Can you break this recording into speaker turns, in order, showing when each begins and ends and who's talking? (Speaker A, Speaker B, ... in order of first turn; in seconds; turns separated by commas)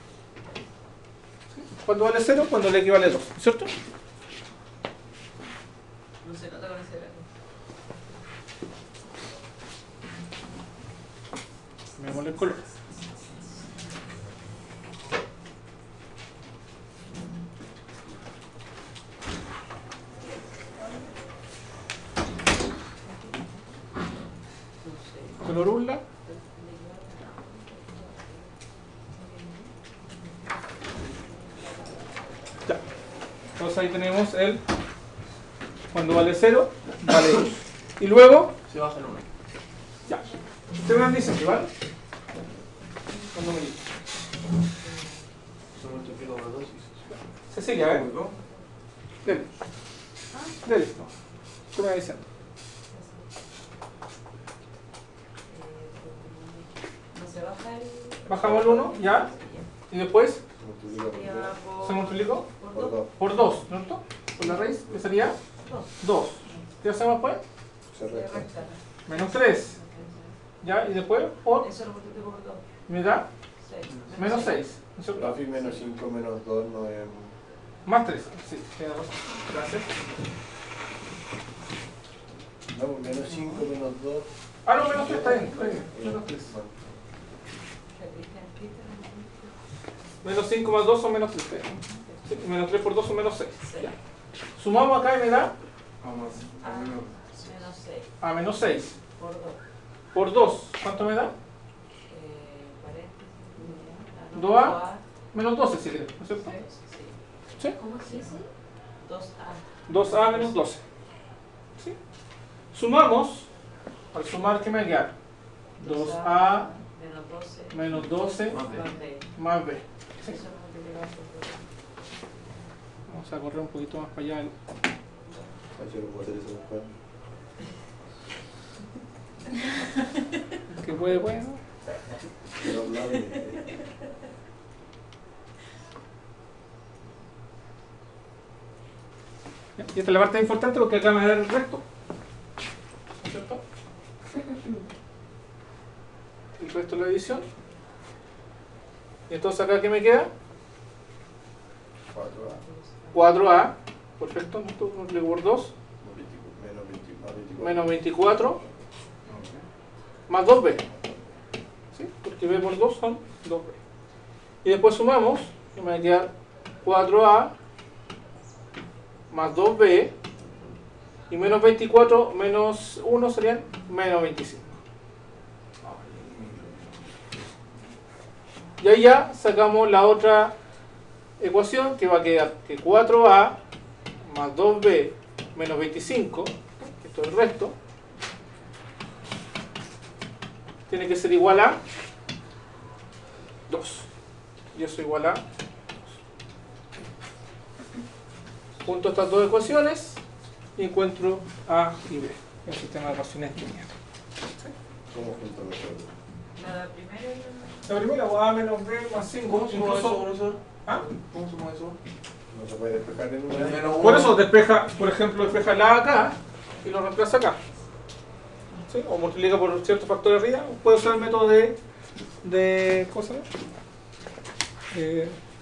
Speaker A: 1.5-3.7, Speaker B: 6.2-7.3, Speaker A: 12.0-12.6, Speaker B: 12.4-12.8, Speaker B: 24.8-25.6, Speaker A: 25.4-26.0, Speaker B: 26.2-28.5, Speaker B: 29.1-29.7, Speaker A: 33.6-34.6, Speaker A: 35.9-38.5, Speaker C: 38.7-39.3, Speaker A: 40.1-41.7, Speaker A: 43.3-43.8, Speaker B: 44.8-45.2, Speaker C: 45.7-47.0, Speaker A: 47.1-48.0, Speaker D: 47.8-48.3, Speaker A: 49.2-49.5, Speaker A: 50.6-51.1, Speaker A: 51.7-52.2, Speaker B: 52.9-53.3, Speaker B: 55.5-59.7, Speaker A: 58.3-59.3, Speaker E: 58.3-59.0, Speaker A: 59.9-60.4, Speaker E: 60.6-61.6, Speaker B: 61.0-63.0, Speaker A: 61.8-62.5, Speaker E: 62.7-63.1, Speaker A: 63.2-65.4, Speaker B: 65.6-65.9, Speaker A: 66.0-67.4, Speaker E: 67.9-68.5, Speaker B: 68.0-68.8, Speaker A: 69.1-69.8, Speaker B: 69.7-70.3, Speaker A: 70.6-71.7, Speaker B: 71.6-72.7, Speaker A: 72.9-73.3, Speaker B: 73.6-74.6, Speaker C: 73.9-74.2, Speaker A: 74.2-75.4, Speaker E: 75.2-77.3, Speaker A: 77.9-79.9, Speaker E: 82.7-84.3, Speaker C: 83.3-83.7, Speaker A: 84.7-86.5, Speaker E: 84.8-86.9, Speaker B: 87.9-89.5, Speaker A: 90.2-93.9, Speaker A: 94.6-95.5, Speaker D: 96.0-97.6, Speaker B: 96.5-98.1, Speaker A: 98.2-99.0, Speaker B: 99.2-99.6, Speaker A: 100.1-101.3, Speaker B: 102.1-105.0, Speaker A: 104.3-104.8, Speaker A: 105.3-106.6, Speaker B: 106.3-108.5, Speaker B: 109.0-110.6, Speaker A: 109.9-110.8, Speaker A: 112.7-113.5, Speaker A: 114.1-115.1, Speaker A: 115.8-116.7, Speaker B: 115.8-118.0, Speaker A: 117.7-118.6, Speaker C: 118.5-118.9, Speaker B: 118.5-119.3, Speaker A: 119.4-120.4, Speaker B: 120.2-121.7, Speaker A: 123.1-124.5, Speaker E: 125.8-126.9, Speaker A: 130.7-131.6, Speaker E: 132.6-133.7, Speaker A: 139.8-141.8, Speaker A: 143.2-143.6, Speaker A: 146.6-147.5, Speaker A: 149.3-150.3, Speaker E: 152.1-152.6, Speaker B: 152.6-153.1, Speaker A: 153.1-155.7, Speaker E: 156.0-158.0, Speaker A: 157.6-158.6, Speaker A: 160.3-160.8, Speaker A: 161.9-163.8, Speaker A: 164.6-166.3, Speaker A: 166.8-167.5, Speaker A: 169.3-170.1, Speaker A: 171.3-174.8, Speaker D: 175.8-176.7, Speaker A: 178.8-180.6, Speaker A: 181.4-183.6, Speaker A: 184.2-187.8, Speaker A: 190.9-191.8, Speaker A: 193.7-194.1, Speaker A: 194.7-195.4, Speaker A: 198.8-200.2, Speaker A: 200.8-203.9, Speaker E: 205.1-206.1, Speaker B: 206.6-207.9, Speaker A: 207.9-210.3, Speaker C: 209.4-212.0, Speaker E: 212.5-214.1, Speaker C: 213.5-214.4, Speaker A: 214.0-217.6, Speaker A: 218.9-221.8, Speaker A: 222.4-223.5, Speaker A: 224.9-225.4